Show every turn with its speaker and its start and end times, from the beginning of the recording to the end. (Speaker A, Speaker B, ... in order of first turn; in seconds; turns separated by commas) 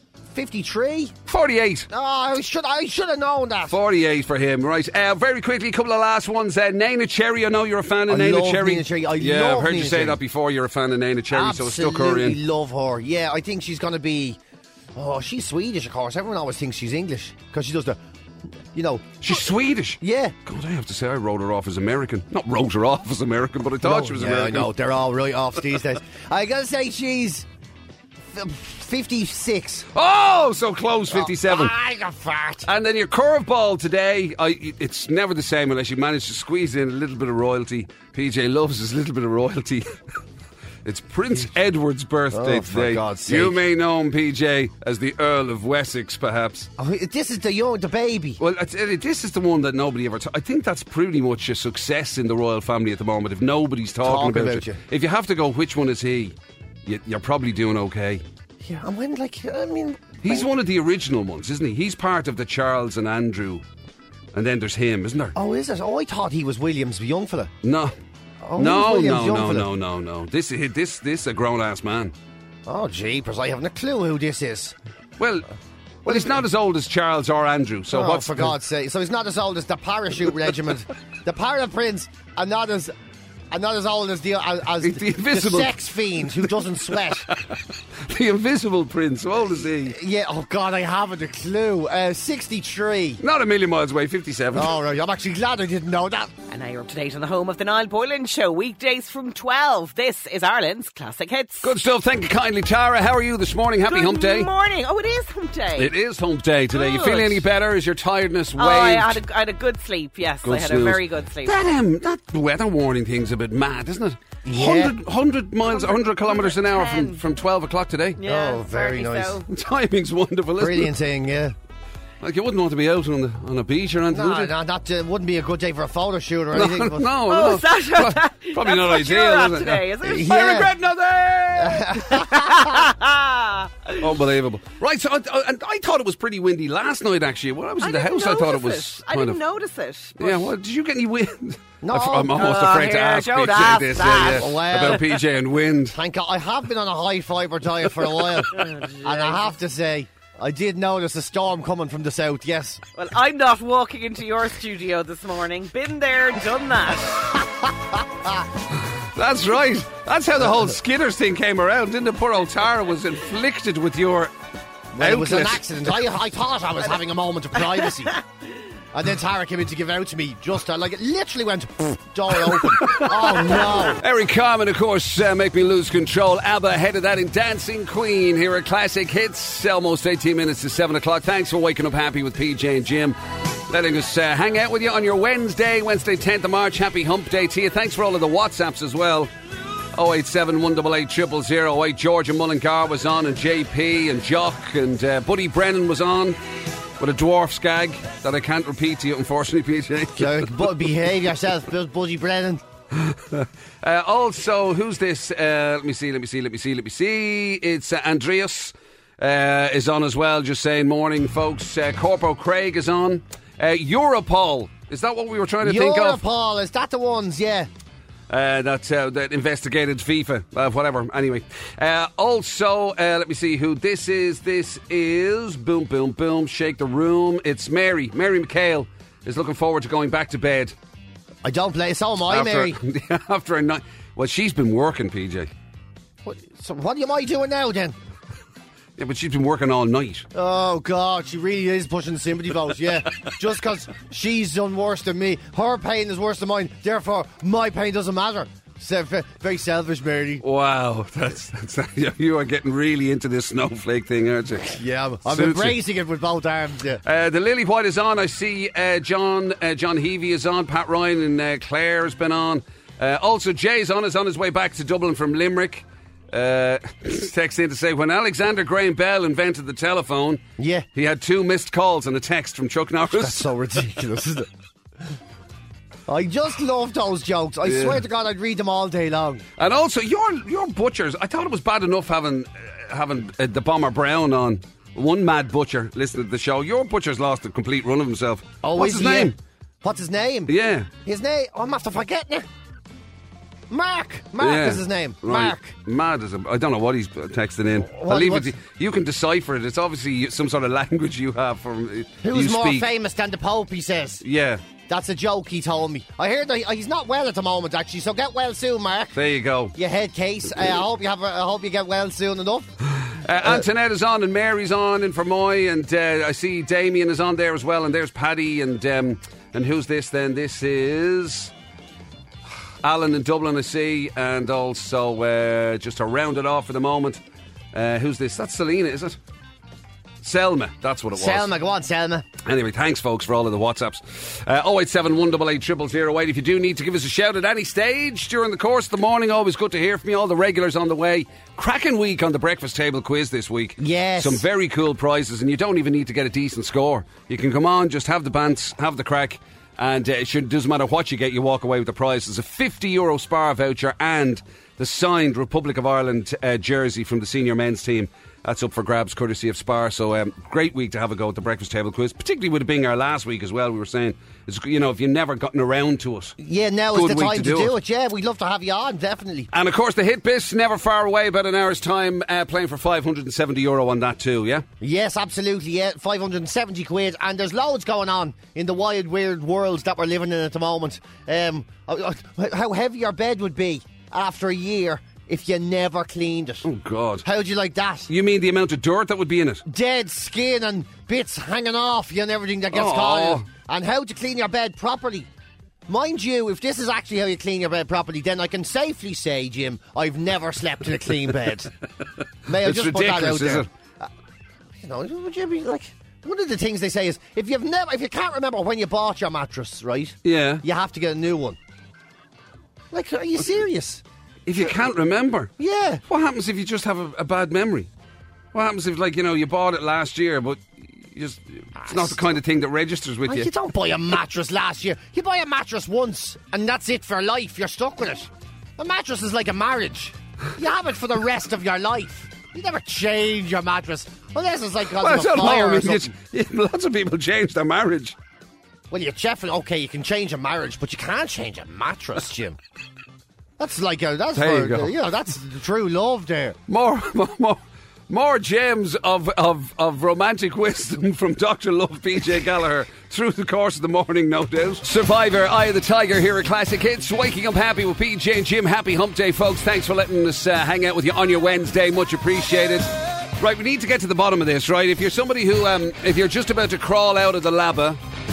Speaker A: 0.3-1.1, Speaker B: 1.3-1.9, Speaker A: 1.9-3.8, Speaker B: 3.7-12.4, Speaker A: 8.1-10.2, Speaker A: 11.3-14.4, Speaker A: 14.9-18.0, Speaker A: 18.7-19.4, Speaker B: 19.2-24.7, Speaker A: 20.0-20.3, Speaker A: 23.8-27.5, Speaker A: 28.3-29.9, Speaker B: 29.9-31.7, Speaker A: 31.1-32.7, Speaker B: 32.6-39.9, Speaker B: 40.8-46.7, Speaker A: 42.3-43.6, Speaker A: 46.8-48.4, Speaker B: 48.4-56.3, Speaker A: 54.0-54.8, Speaker B: 56.9-58.2, Speaker A: 58.6-60.5, Speaker B: 60.2-63.6, Speaker B: 64.3-65.3, Speaker A: 65.3-67.5, Speaker B: 67.6-67.9, Speaker A: 68.4-69.7, Speaker B: 68.5-72.1, Speaker A: 72.7-74.8, Speaker B: 75.2-75.5, Speaker B: 76.0-78.5, Speaker A: 76.0-76.4, Speaker A: 77.9-82.9, Speaker A: 83.5-87.3, Speaker B: 84.8-90.0, Speaker A: 89.6-93.2, Speaker B: 93.2-94.8, Speaker A: 94.5-96.3, Speaker C: 96.5-101.7, Speaker B: 101.6-104.5, Speaker C: 103.8-105.9, Speaker B: 105.8-109.2, Speaker C: 106.7-107.4, Speaker C: 108.6-111.6, Speaker B: 110.4-118.2, Speaker A: 114.4-115.0, Speaker C: 115.7-117.2, Speaker C: 118.2-119.5, Speaker A: 118.2-119.4, Speaker B: 119.5-120.9, Speaker A: 120.6-121.5, Speaker B: 122.2-124.5, Speaker A: 124.1-127.1, Speaker B: 126.5-131.9, Speaker C: 127.3-130.7, Speaker A: 130.0-130.7, Speaker A: 131.5-132.8, Speaker C: 132.0-134.1, Speaker B: 134.0-139.4, Speaker C: 137.8-140.5, Speaker B: 140.2-146.0, Speaker A: 141.8-142.4, Speaker C: 142.3-145.1, Speaker A: 144.0-145.1, Speaker A: 145.9-152.8, Speaker C: 148.5-149.5, Speaker C: 152.9-157.2, Speaker B: 158.8-164.3, Speaker A: 164.9-168.2, Speaker B: 165.0-166.0, Speaker A: 168.9-174.0, Speaker B: 172.6-189.3, Speaker B: 189.9-196.4, Speaker B: 197.0-200.8, Speaker A: 200.2-202.6, Speaker B: 202.9-216.2, Speaker A: 215.6-217.7, Speaker B: 218.3-230.7, Speaker A: 231.4-232.8, Speaker B: 232.3-235.5, Speaker A: 236.2-237.9, Speaker B: 239.0-240.2, Speaker A: 240.3-250.4, Speaker B: 250.4-255.8, Speaker A: 254.7-257.0, Speaker B: 257.0-270.4, Speaker A: 270.6-270.9, Speaker B: 270.9-273.5, Speaker A: 273.0-274.5, Speaker A: 276.1-279.4, Speaker B: 277.6-278.0, Speaker B: 279.6-289.4, Speaker A: 288.6-290.5, Speaker B: 290.5-290.9, Speaker A: 291.0-292.4, Speaker A: 293.7-295.7, Speaker B: 294.4-302.9, Speaker A: 297.8-298.5, Speaker A: 302.2-304.2, Speaker B: 304.2-304.6, Speaker A: 304.9-309.2, Speaker B: 309.1-309.7, Speaker A: 309.7-312.7, Speaker B: 312.9-321.5, Speaker A: 313.4-313.6, Speaker B: 322.8-327.2, Speaker B: 327.7-329.2, Speaker B: 330.2-331.5, Speaker A: 331.1-332.2, Speaker B: 332.4-366.4, Speaker A: 343.8-344.4, Speaker A: 366.4-369.5, Speaker B: 366.9-367.7, Speaker B: 369.5-374.6, Speaker A: 374.8-386.6, Speaker B: 386.6-387.2, Speaker A: 387.2-388.1, Speaker B: 388.1-389.6, Speaker A: 389.6-395.3, Speaker B: 392.7-393.5, Speaker A: 395.9-401.7, Speaker A: 402.4-404.1, Speaker B: 402.6-403.7, Speaker A: 404.8-411.6, Speaker B: 410.2-410.6, Speaker A: 412.9-414.0, Speaker B: 414.4-415.5, Speaker A: 415.6-416.0, Speaker B: 416.1-417.9, Speaker B: 418.5-423.5, Speaker A: 421.8-422.2, Speaker A: 423.2-436.1, Speaker B: 435.0-438.1, Speaker A: 438.9-442.6, Speaker A: 443.6-446.6, Speaker B: 444.3-444.9, Speaker B: 446.7-468.0